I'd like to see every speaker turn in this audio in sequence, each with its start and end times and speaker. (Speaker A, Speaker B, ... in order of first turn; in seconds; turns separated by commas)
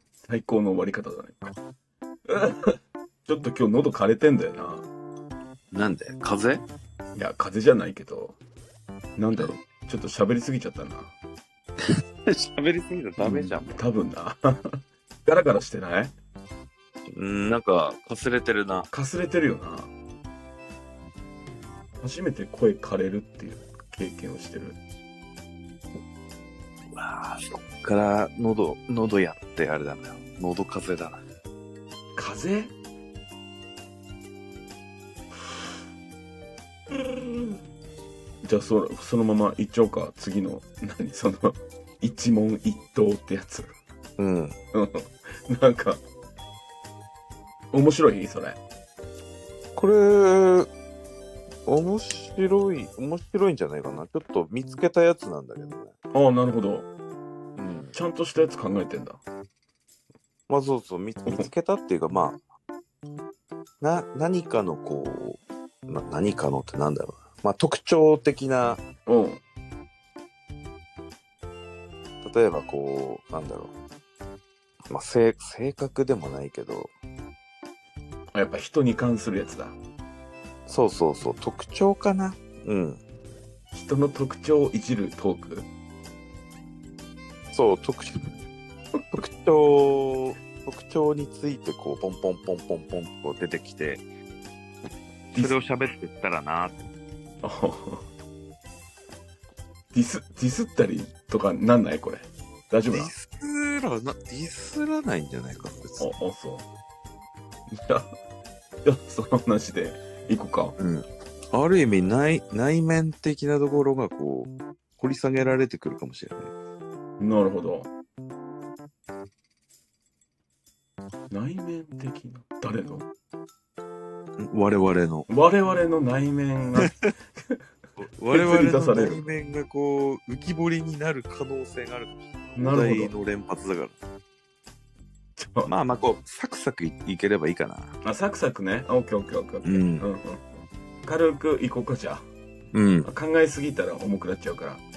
Speaker A: 0.2-1.5, Speaker A: 3.3-4.8, Speaker B: 5.7-6.7, Speaker A: 7.2-8.4, Speaker A: 9.2-11.2, Speaker B: 12.3-13.8, Speaker A: 13.2-14.4, Speaker A: 15.3-16.1, Speaker B: 17.1-18.9, Speaker A: 18.9-19.9, Speaker A: 22.0-24.8, Speaker B: 26.9-31.2, Speaker A: 32.2-32.7, Speaker A: 38.4-43.7, Speaker B: 44.2-44.6, Speaker A: 44.7-46.0, Speaker A: 47.7-48.6, Speaker B: 49.8-50.7, Speaker B: 51.7-55.9, Speaker A: 56.1-56.9, Speaker B: 57.6-58.0, Speaker A: 57.9-59.2, Speaker B: 60.5-62.4, Speaker B: 63.8-68.8, Speaker A: 69.1-69.4, Speaker B: 72.2-73.7, Speaker B: 74.9-76.9, Speaker A: 78.3-79.8, Speaker B: 80.7-83.0, Speaker A: 83.7-85.7, Speaker B: 87.5-88.3, Speaker B: 89.1-94.0, Speaker B: 95.3-96.8, Speaker A: 97.4-98.0, Speaker A: 99.9-103.2, Speaker B: 102.9-106.1, Speaker A: 106.0-106.7, Speaker A: 107.7-108.1, Speaker A: 108.8-110.8, Speaker B: 110.8-116.5, Speaker A: 117.2-117.9, Speaker A: 121.3-123.1, Speaker B: 124.4-125.3, Speaker A: 125.3-126.9, Speaker B: 128.0-134.0, Speaker A: 128.3-129.3, Speaker A: 132.6-133.1, Speaker A: 135.4-135.7, Speaker B: 135.7-138.0, Speaker A: 138.0-140.4, Speaker B: 139.6-140.1, Speaker A: 141.1-142.3, Speaker B: 142.7-143.1, Speaker A: 143.0-144.8